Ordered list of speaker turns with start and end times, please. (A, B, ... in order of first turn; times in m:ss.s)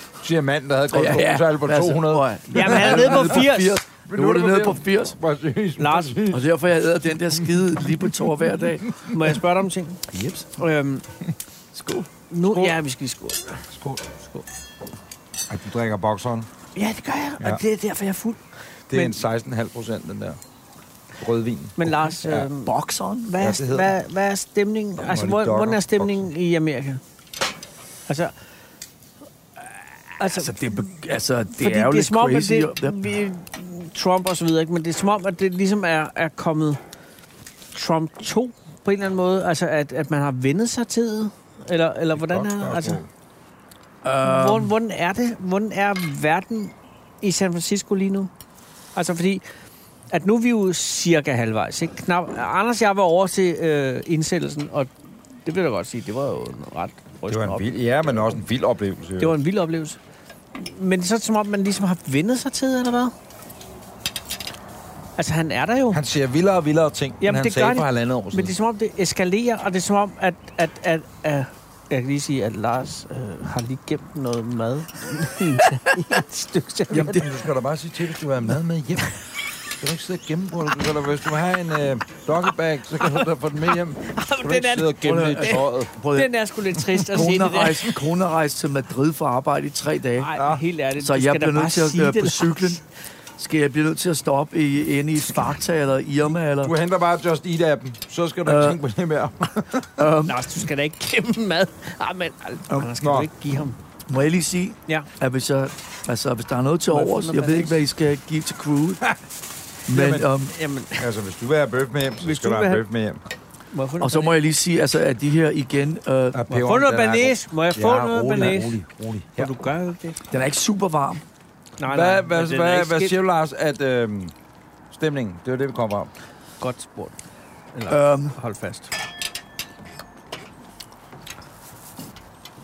0:00.2-0:03.5 A
0:00.9-0:05.2 B
0:02.5-0:03.8 C
0:04.0-0:06.5 A
0:05.8-0:06.2 C
0:06.3-0:09.0 B
0:09.1-0:10.0 C
0:10.1-0:10.4 A
0:10.6-0:11.0 C
0:11.7-0:12.1 B
0:12.3-0:13.6 C
0:12.4-0:12.8 A
0:13.7-0:14.0 A
0:14.2-0:14.4 C
0:15.5-0:16.5 A
0:16.8-0:19.2 C
0:18.9-0:20.4 A
0:21.2-0:22.5 A
0:21.8-0:22.7 C
0:22.5-0:23.4 B
0:23.3-0:27.0 C
0:23.4-0:23.9 A
0:25.0-0:26.3 A
0:28.1-0:28.3 C
0:30.2-0:30.5 C
0:30.2-0:33.0 B
0:31.6-0:36.8 C
0:37.7-0:43.0 C
0:42.2-0:43.1 A
0:44.0-0:44.7 B
0:44.2-0:48.3 C
0:48.9-0:49.4 C
0:50.1-0:54.9 C
0:55.4-0:58.4 C
0:57.3-0:59.4 A
0:59.2-1:00.0 C
1:00.5-1:03.1 C
1:05.2-1:06.0 C
1:05.9-1:08.5 A
1:07.2-1:17.3 C
1:16.9-1:19.2 A
1:19.8-1:25.9 A
1:23.0-1:23.3 C
1:24.0-1:27.9 C
1:25.0-1:26.3 B
1:27.0-1:30.3 B
1:30.2-1:32.8 C
1:30.4-1:30.6 A
1:31.0-1:32.8 B
1:33.4-1:36.7 B
1:36.6-1:40.0 A
1:38.4-1:38.8 B
1:40.0-1:40.4 B
1:40.2-1:43.8 C
1:43.0-1:43.3 A
1:44.1-1:49.0 B
1:46.9-1:47.8 C
1:49.9-1:50.5 B
1:49.9-1:50.2 A
1:50.5-1:51.1 C
1:51.0-1:53.2 A
1:52.2-1:52.8 C
1:53.7-1:54.4 C
1:54.0-1:56.4 B
1:56.3-1:59.5 A
1:56.5-1:58.7 C
1:59.4-2:00.2 C
2:00.3-2:01.2 B
2:01.8-2:03.1 C
2:01.9-2:04.3 A
2:04.9-2:06.1 A
2:06.6-2:07.2 C
2:07.7-2:08.9 C
2:07.9-2:08.4 B